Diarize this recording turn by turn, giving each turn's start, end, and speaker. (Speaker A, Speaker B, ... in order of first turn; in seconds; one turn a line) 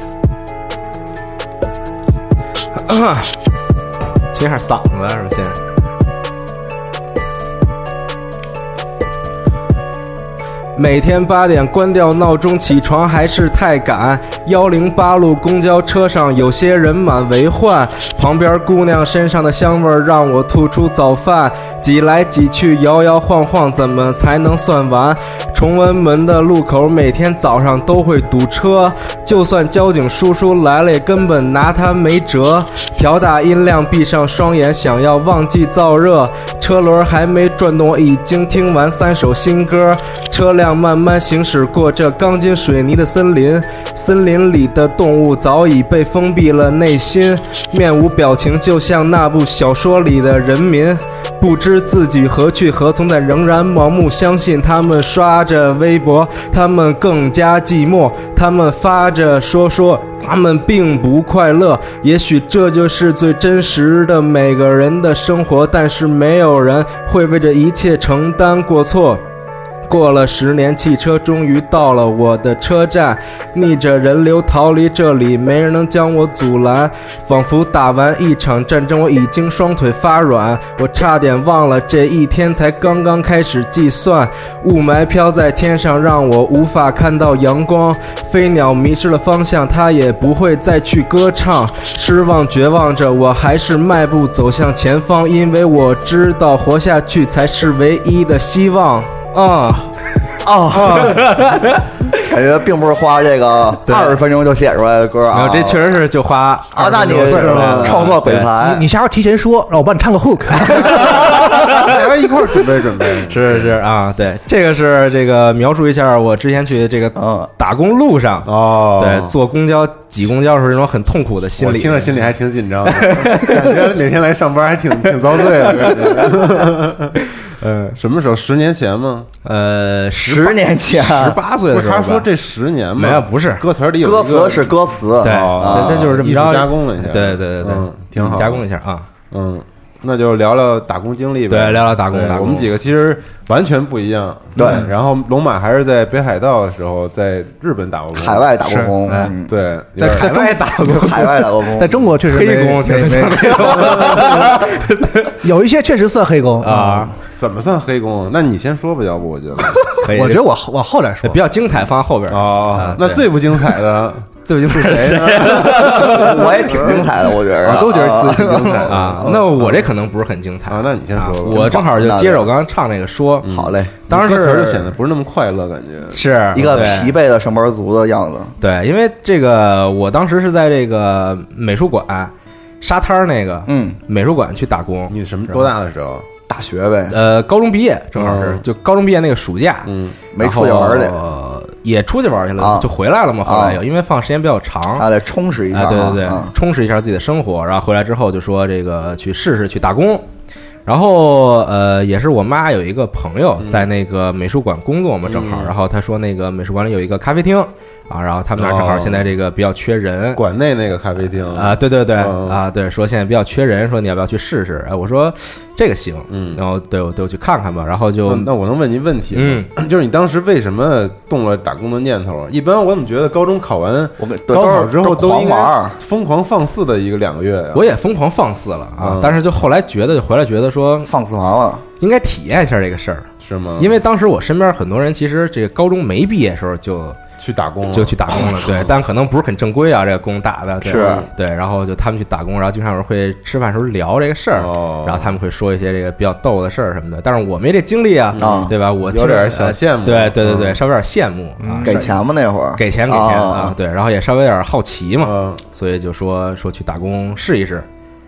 Speaker A: 2.7-3.4
Speaker A: 4.3-5.6
Speaker A: 10.7-69.2
Speaker A: 69.9-99.9
Speaker B: 100.4-101.2
Speaker C: 100.7-101.2
Speaker A: 101.0-101.8
Speaker B: 102.1-106.0
Speaker A: 103.8-104.2
Speaker A: 105.3-108.5
Speaker B: 106.7-108.8
Speaker C: 107.1-108.1
Speaker D: 108.6-111.3
Speaker C: 111.3-113.7
Speaker A: 111.5-111.9
Speaker A: 113.3-122.3
Speaker B: 117.2-117.5
Speaker C: 118.5-119.3
Speaker C: 121.6-127.2
Speaker A: 122.9-123.6
Speaker A: 125.8-126.4
Speaker A: 127.5-128.0
Speaker C: 128.0-129.3
Speaker A: 129.4-132.2
Speaker B: 130.2-131.4
Speaker C: 131.7-138.6
Speaker A: 133.0-133.6
Speaker B: 134.0-136.1
Speaker A: 135.2-139.1
Speaker C: 139.3-148.5
Speaker A: 141.5-142.7
Speaker B: 144.6-144.9
Speaker D: 144.6-144.8
Speaker B: 148.1-149.5
Speaker D: 148.6-149.0
Speaker A: 149.1-149.3
Speaker C: 149.5-150.3
Speaker A: 150.0-151.4
Speaker D: 150.0-150.6
Speaker B: 150.8-152.1
Speaker D: 151.8-153.7
Speaker A: 152.2-155.4
Speaker B: 153.7-154.5
Speaker D: 155.4-157.1
Speaker A: 156.6-157.1
Speaker C: 157.4-159.9
Speaker A: 160.0-160.4
Speaker D: 160.0-161.4
Speaker A: 161.2-163.3
Speaker C: 162.3-169.9
Speaker A: 164.4-166.6
Speaker B: 165.6-169.5
Speaker A: 168.9-173.5
Speaker C: 170.7-171.8
Speaker B: 171.5-172.5
Speaker C: 173.4-176.9
Speaker B: 173.5-173.9
Speaker A: 174.1-174.9
Speaker A: 176.1-177.1
Speaker B: 176.5-178.5
Speaker A: 178.6-185.7
Speaker B: 183.7-184.0
Speaker C: 185.1-186.2
Speaker B: 186.5-187.2
Speaker A: 187.1-195.1
Speaker C: 188.2-188.6
Speaker C: 189.8-190.2
Speaker B: 190.3-191.2
Speaker B: 192.6-192.9
Speaker B: 193.4-193.8
Speaker B: 195.0-196.5
Speaker A: 195.7-200.2
Speaker A: 200.8-210.4
Speaker C: 203.6-203.9
Speaker C: 205.2-205.7
Speaker C: 208.6-209.3
Speaker C: 210.3-212.6
Speaker A: 211.5-218.5
Speaker C: 216.3-216.6
Speaker C: 218.2-227.9
Speaker A: 219.3-219.7
Speaker B: 224.2-225.9
Speaker A: 227.7-231.1
Speaker C: 229.0-229.4
Speaker B: 231.1-231.8
Speaker A: 232.0-233.3
Speaker C: 233.4-233.9
Speaker A: 233.8-237.2
Speaker C: 237.4-238.8
Speaker A: 237.9-252.1
Speaker B: 240.8-241.2
Speaker C: 240.8-241.3
Speaker C: 244.6-245.3
Speaker C: 248.3-250.8
Speaker B: 248.4-248.7
Speaker D: 251.6-252.1
Speaker B: 251.8-253.8
Speaker A: 252.8-257.9
Speaker C: 255.2-255.6